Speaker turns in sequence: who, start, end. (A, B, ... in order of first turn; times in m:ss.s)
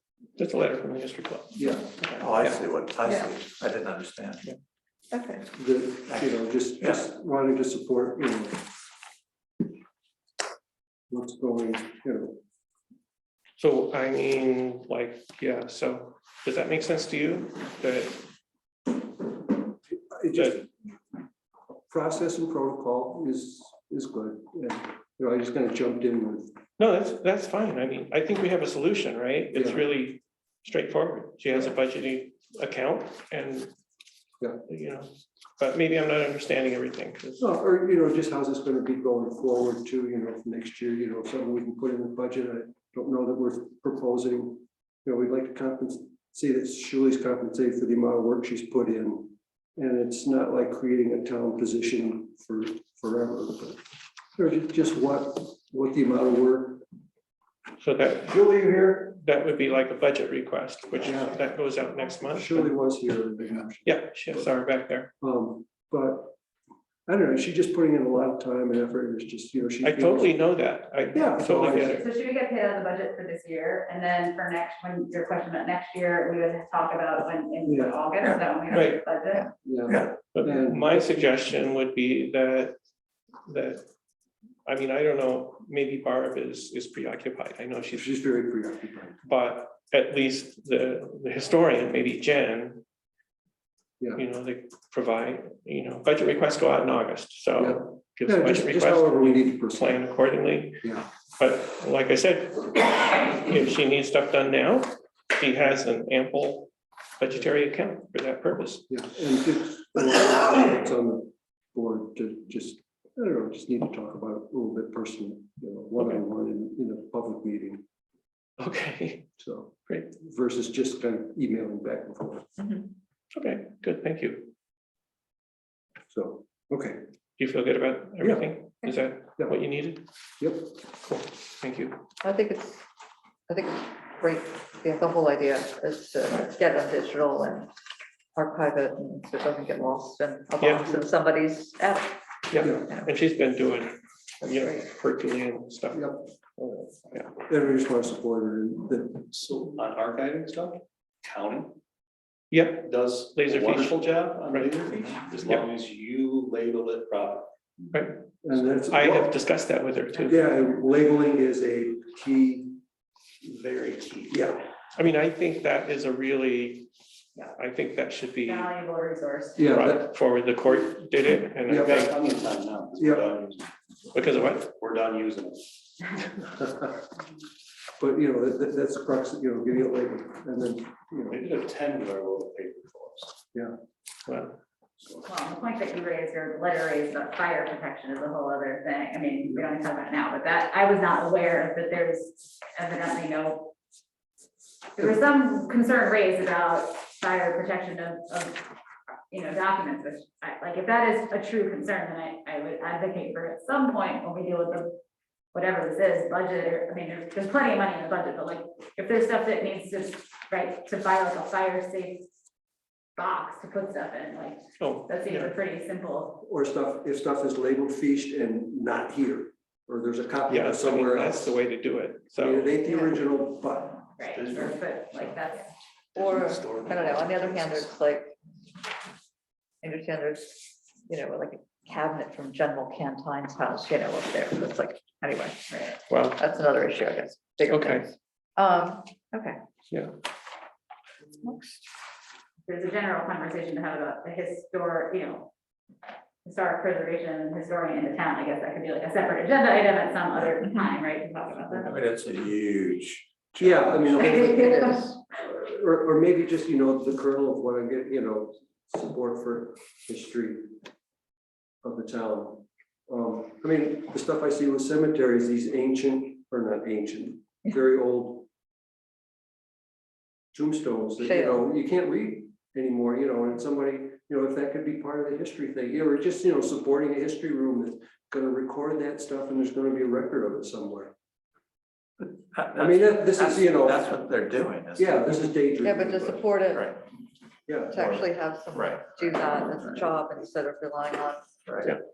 0:00.4-0:02.6 A
0:01.5-0:02.1 B
0:02.2-0:04.4 C
0:05.1-0:05.5 D
0:05.6-0:08.6 B
0:06.1-0:07.0 C
0:11.1-0:12.4 B
0:13.6-0:18.2 A
0:20.1-0:20.7 B
0:21.9-0:26.5 B
0:26.8-0:33.7 A
0:29.5-0:29.8 B
0:34.7-0:37.4 A
0:37.4-0:53.8 B
0:54.4-0:56.8 B
0:57.8-1:02.7 A
0:58.3-0:58.9 B
1:01.0-1:01.4 B
1:02.2-1:04.5 B
1:03.8-1:05.1 A
1:05.2-1:06.3 B
1:07.1-1:10.5 B
1:09.8-1:12.0 A
1:11.1-1:12.0 B
1:11.8-1:19.5 E
1:17.7-1:18.0 B
1:18.7-1:19.0 A
1:19.6-1:21.2 B
1:20.2-1:22.8 A
1:23.5-1:23.8 A
1:24.7-1:28.1 A
1:27.9-1:29.2 B
1:29.3-1:32.8 A
1:34.2-1:40.8 A
1:37.6-1:40.0 B
1:41.4-1:48.8 A
1:48.9-1:57.8 B
1:58.6-2:00.1 A
1:59.4-2:02.5 B
2:03.3-2:04.5 A
2:06.1-2:07.0 B
2:07.4-2:10.0 A
2:08.2-2:08.5 B
2:10.4-2:10.7 B
2:11.1-2:12.0 A
2:12.2-2:12.8 D
2:13.5-2:17.7 D
2:18.4-2:22.2 D
2:20.6-2:20.9 A
2:22.5-2:27.3 A
2:22.6-2:22.8 B
2:22.7-2:23.1 D
2:24.6-2:24.8 D
2:25.9-2:26.2 B
2:27.5-2:29.3 B
2:29.3-2:31.8 F
2:32.5-2:35.7 A
2:32.8-2:37.5 F
2:37.9-2:40.5 A
2:38.4-2:39.4 B
2:40.2-2:42.8 B
2:43.4-2:44.5 F
2:44.3-2:44.6 B
2:45.0-2:46.9 A
2:47.6-2:48.7 A
2:48.4-2:49.7 E
2:49.6-2:50.2 B
2:49.7-2:52.2 A
2:51.7-2:53.7 F
2:53.0-2:53.3 B
2:54.1-2:54.7 A
2:54.7-2:55.8 F
2:56.4-2:57.0 B
2:58.0-3:01.4 B
3:01.3-3:03.4 F
3:04.3-3:04.6 A
3:05.0-3:05.3 F
3:05.3-3:13.7 E
3:15.0-3:18.6 E
3:19.3-3:24.9 E
3:25.5-3:32.3 E
3:33.2-3:36.4 E
3:34.8-3:35.5 A
3:36.4-3:41.5 B
3:40.5-3:42.8 A
3:42.4-3:44.0 B
3:44.2-3:45.7 E
3:44.3-3:44.8 F
3:46.1-3:47.9 F
3:46.2-3:48.4 D
3:49.8-3:55.7 D
3:55.7-3:56.0 E
3:56.1-3:56.4 A
3:56.3-3:59.6 D
3:57.7-3:58.0 A
4:01.4-4:01.9 D
4:02.7-4:05.5 E
4:06.4-4:11.9 E
4:11.7-4:14.4 C
4:13.6-4:14.5 B
4:14.1-4:15.2 D
4:14.1-4:15.2 E
4:15.3-4:20.7 B
4:21.8-4:28.5 B
4:30.5-4:41.1 B
4:31.2-4:31.6 D
4:42.5-4:45.4 C
4:42.7-4:44.2 B
4:45.0-4:46.6 B
4:45.8-4:47.0 D
4:47.7-4:48.1 B
4:47.9-4:52.0 D
4:47.9-4:49.2 C
4:51.7-4:52.0 C